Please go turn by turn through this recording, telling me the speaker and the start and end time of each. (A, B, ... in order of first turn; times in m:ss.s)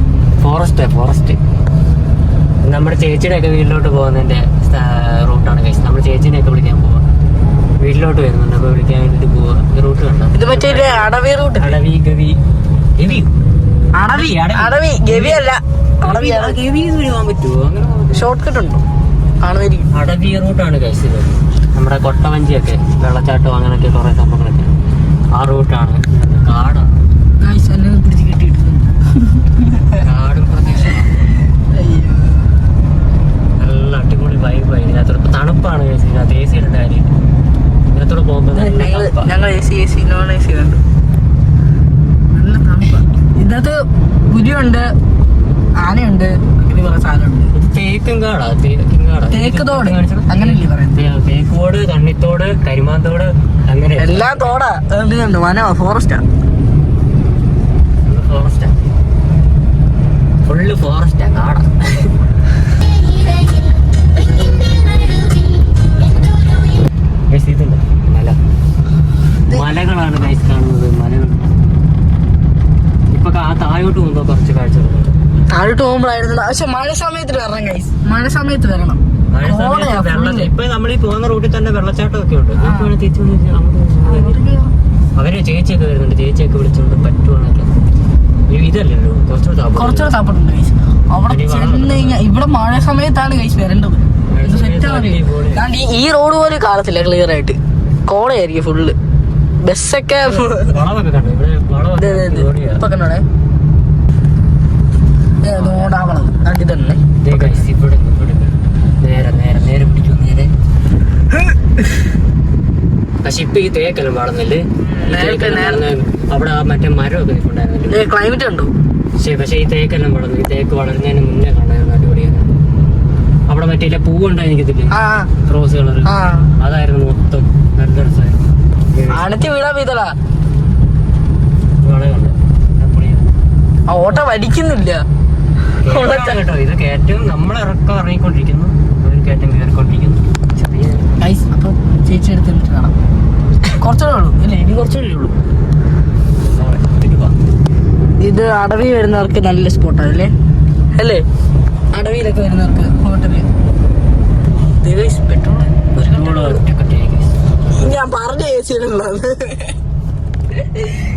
0:00.4-0:01.4 A
0:02.6-0:07.0 A
0:07.8-0:12.4 A
0:10.3-0:11.7 B
0:13.0-0:13.3 A
0:14.0-0:16.6 B
0:14.1-0:15.4 A
0:16.0-0:18.3 A
0:18.1-0:18.8 B
0:19.4-0:19.9 B
0:19.9-0:24.7 A
0:25.3-0:27.1 A
0:27.4-0:30.0 B
0:30.0-0:31.1 A
0:31.6-0:32.6 B
0:33.6-0:37.1 A
0:37.9-0:39.3 A
0:38.5-0:40.8 B
0:42.3-0:44.9 B
0:45.8-0:47.5 B
0:47.5-0:54.3 A
0:49.3-0:51.0 B
0:54.0-0:56.2 B
0:58.0-0:58.8 A
1:00.4-1:02.1 A
1:07.3-1:08.4 A
1:09.5-1:11.5 A
1:13.1-1:15.1 A
1:15.5-1:20.5 B
1:19.3-1:24.4 A
1:22.6-1:22.9 B
1:24.0-1:24.7 B
1:25.2-1:27.7 A
1:28.5-1:30.1 A
1:29.7-1:39.0 B
1:31.2-1:32.2 A
1:34.2-1:35.6 A
1:39.6-1:40.7 B
1:40.2-1:42.8 A
1:42.0-1:43.2 B
1:45.4-1:47.6 B
1:45.4-1:46.0 A
1:47.2-1:50.5 A
1:53.2-1:58.0 A
1:54.8-1:55.8 B
1:57.9-1:58.7 B
1:59.2-2:02.5 A
2:03.5-2:09.3 A
2:04.9-2:05.3 B
2:06.0-2:06.5 B
2:09.1-2:10.1 B
2:11.8-2:13.3 A
2:13.9-2:15.0 B
2:15.8-2:21.2 A
2:15.8-2:16.4 B
2:21.2-2:22.9 B
2:23.8-2:25.3 B
2:26.4-2:27.4 A
2:28.2-2:30.3 B
2:31.0-2:31.2 B
2:31.9-2:33.5 B
2:34.8-2:36.6 B
2:36.0-2:37.4 A
2:37.7-2:39.8 B
2:40.6-2:40.9 B